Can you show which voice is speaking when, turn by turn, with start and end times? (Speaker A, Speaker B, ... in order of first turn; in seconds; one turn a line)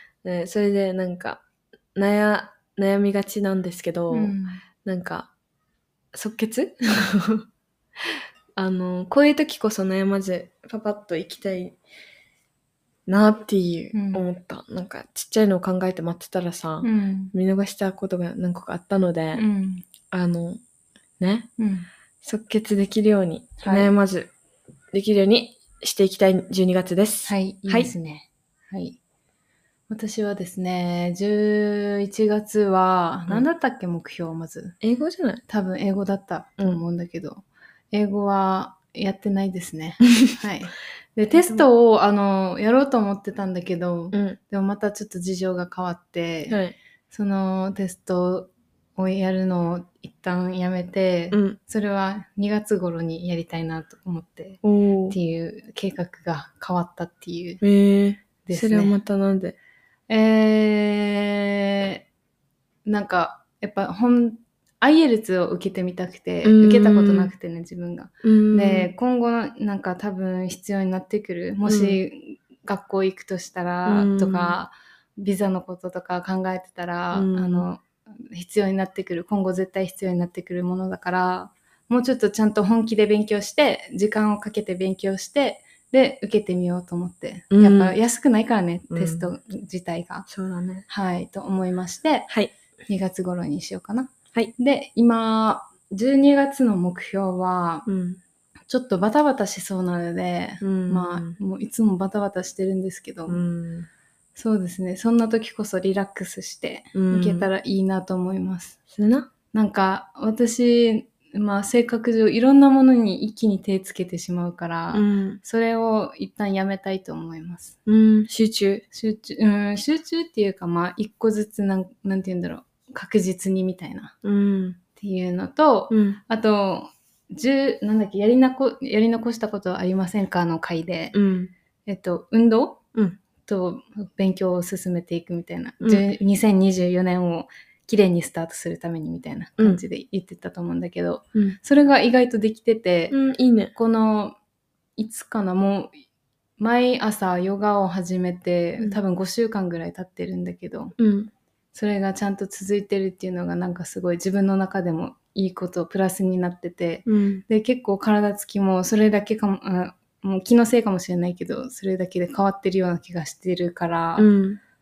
Speaker A: 0.2-1.4
Speaker A: 1.9-5.3
Speaker B: 4.1-4.6
Speaker A: 6.1-7.5
Speaker A: 8.6-11.8
Speaker A: 13.1-19.4
Speaker B: 13.9-14.3
Speaker B: 16.8-17.3
Speaker B: 19.4-19.9
Speaker A: 20.1-20.6
Speaker A: 21.2-21.5
Speaker B: 21.6-21.9
Speaker A: 22.2-24.3
Speaker B: 23.6-23.9
Speaker A: 24.9-27.9
Speaker B: 27.3-29.0
Speaker B: 29.9-34.8
Speaker A: 34.8-35.4
Speaker B: 35.5-57.6
Speaker A: 41.3-41.6
Speaker A: 44.1-44.4
Speaker A: 46.5-46.8
Speaker A: 51.3-51.6
Speaker A: 54.6-55.2
Speaker A: 57.6-59.6
Speaker B: 58.5-59.0
Speaker B: 60.1-62.0
Speaker B: 62.9-90.3
Speaker A: 66.4-67.3
Speaker A: 68.2-68.9
Speaker A: 71.7-72.0
Speaker A: 73.9-74.6
Speaker A: 77.1-77.7
Speaker A: 87.5-88.0
Speaker A: 88.9-89.3
Speaker A: 90.3-90.9
Speaker B: 90.9-92.3
Speaker B: 92.9-97.9
Speaker A: 97.9-98.2
Speaker B: 98.7-103.4
Speaker A: 100.6-101.4
Speaker A: 103.3-103.9
Speaker B: 104.4-108.8
Speaker A: 106.9-107.5
Speaker A: 108.9-109.3
Speaker B: 109.5-117.8
Speaker A: 114.9-115.4
Speaker A: 117.9-118.8
Speaker B: 118.9-124.2
Speaker A: 124.2-124.8
Speaker B: 125.0-131.2
Speaker A: 125.9-126.2
Speaker A: 131.1-131.5
Speaker B: 131.9-132.8
Speaker B: 133.4-143.2
Speaker A: 143.1-143.7
Speaker B: 143.8-144.4
Speaker B: 145.0-145.9
Speaker B: 146.6-150.9
Speaker A: 151.0-151.3
Speaker B: 151.7-164.3
Speaker A: 157.1-157.4
Speaker A: 164.2-164.6